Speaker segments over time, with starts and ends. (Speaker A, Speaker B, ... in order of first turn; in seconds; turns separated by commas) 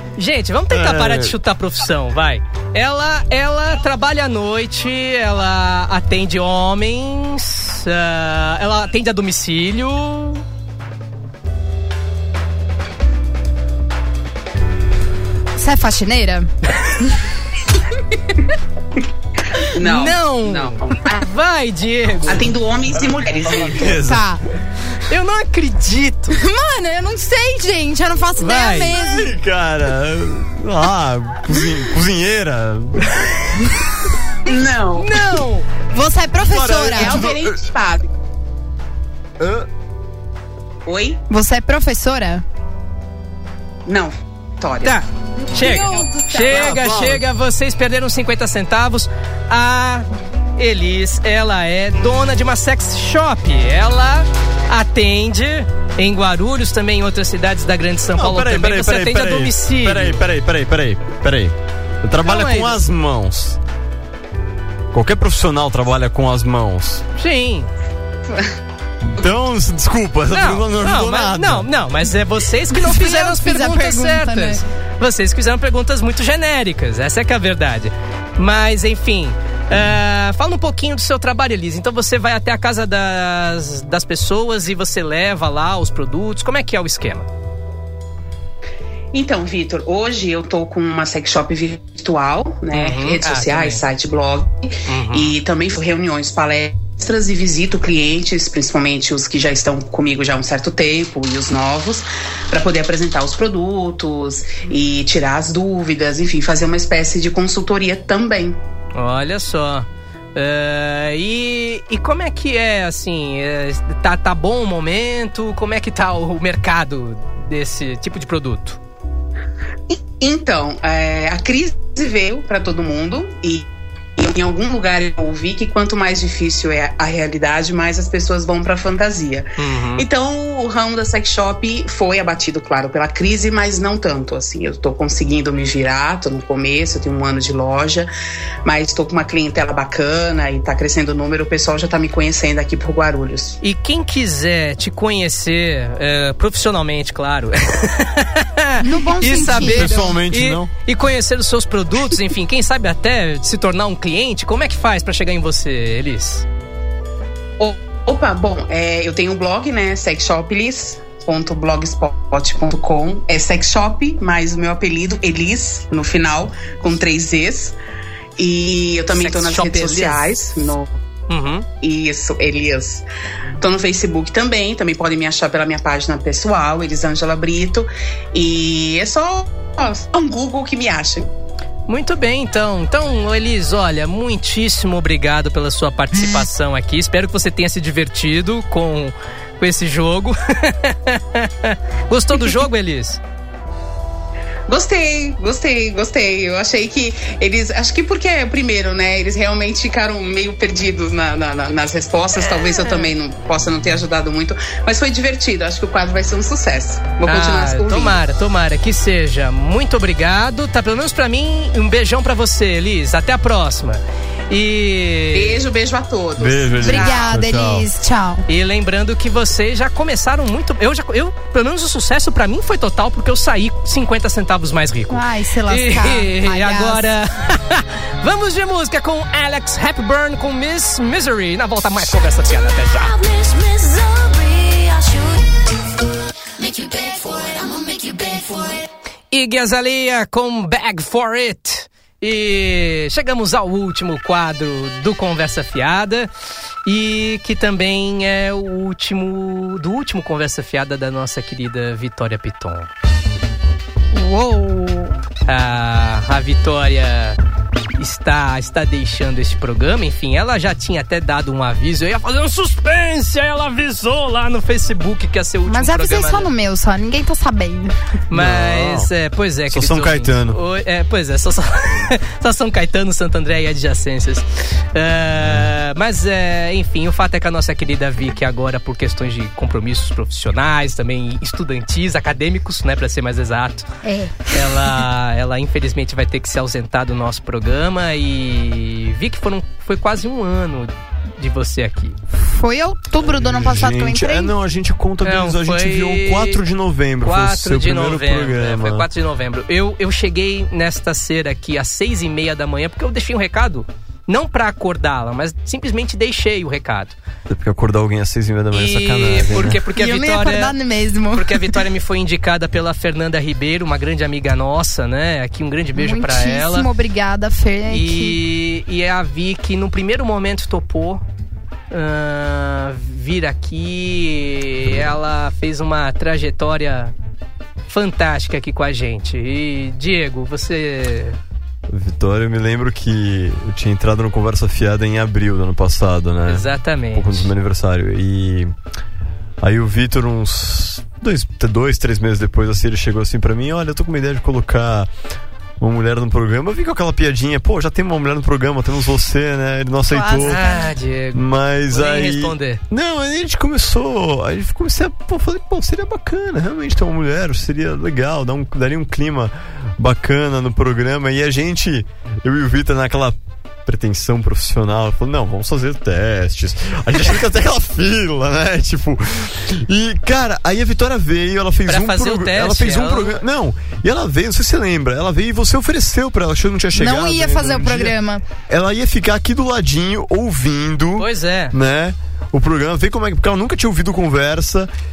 Speaker A: 0.2-10.4, Speaker B: 0.7-1.3, Speaker C: 15.6-16.5, Speaker D: 19.6-21.2, Speaker A: 19.8-22.5, Speaker D: 22.2-24.0, Speaker B: 23.0-24.3, Speaker C: 23.9-24.4, Speaker A: 25.1-26.4, Speaker C: 26.3-29.3, Speaker A: 28.4-28.9, Speaker B: 28.9-33.5, Speaker D: 34.5-35.2, Speaker A: 35.0-35.7, Speaker C: 35.9-37.3, Speaker B: 36.4-37.6, Speaker D: 36.9-38.1, Speaker B: 39.4-39.7, Speaker D: 40.9-41.2, Speaker C: 41.3-42.4, Speaker D: 43.9-45.0, Speaker A: 44.8-50.0, Speaker C: 45.5-46.5, Speaker B: 46.4-47.2, Speaker A: 50.6-60.2, Speaker B: 58.1-63.6, Speaker A: 62.2-62.8, Speaker B: 64.9-67.0, Speaker A: 67.2-67.7, Speaker B: 69.0-71.7, Speaker A: 70.3-87.3, Speaker C: 72.7-74.6, Speaker D: 89.1-108.6, Speaker A: 92.7-93.8, Speaker A: 94.9-95.3, Speaker A: 108.9-118.8, Speaker D: 119.9-138.1, Speaker A: 129.6-130.1, Speaker D: 138.6-143.6, Speaker A: 143.6-156.4, Speaker C: 148.8-150.1, Speaker B: 149.4-150.7, Speaker D: 157.6-167.7, Speaker D: 168.4-170.9, Speaker A: 169.1-170.2, Speaker A: 171.3-171.7, Speaker D: 171.8-173.0, Speaker D: 173.6-181.3, Speaker A: 181.9-193.2, Speaker D: 194.7-208.2, Speaker A: 202.5-203.1, Speaker A: 207.2-215.6, Speaker D: 215.3-217.3, Speaker B: 216.4-217.9, Speaker C: 216.8-218.4, Speaker A: 218.5-233.1, Speaker C: 225.1-227.1, Speaker E: 233.0-235.8, Speaker E: 236.6-238.8, Speaker A: 239.3-246.3, Speaker A: 246.8-252.9, Speaker C: 254.1-255.1, Speaker A: 255.4-257.4, Speaker A: 258.0-266.5, Speaker C: 265.7-267.9, Speaker A: 268.3-283.9, Speaker B: 268.3-269.1, Speaker B: 269.7-270.6, Speaker B: 275.4-275.7, Speaker C: 284.0-284.9, Speaker A: 284.5-292.2, Speaker C: 292.3-294.5, Speaker B: 293.2-299.1, Speaker A: 295.2-296.6, Speaker A: 297.2-307.2, Speaker B: 307.5-309.8, Speaker A: 308.7-310.7, Speaker C: 309.9-311.8, Speaker A: 311.3-316.9, Speaker C: 315.9-318.4, Speaker A: 317.9-321.2, Speaker A: 321.9-327.1, Speaker A: 327.9-331.4, Speaker B: 331.9-338.7, Speaker A: 336.5-337.5, Speaker B: 339.6-345.1, Speaker B: 345.8-350.6, Speaker C: 350.1-350.8, Speaker A: 350.2-352.8, Speaker B: 351.3-378.1, Speaker A: 371.9-373.4, Speaker C: 376.9-378.4, Speaker B: 378.7-384.9, Speaker A: 381.2-381.7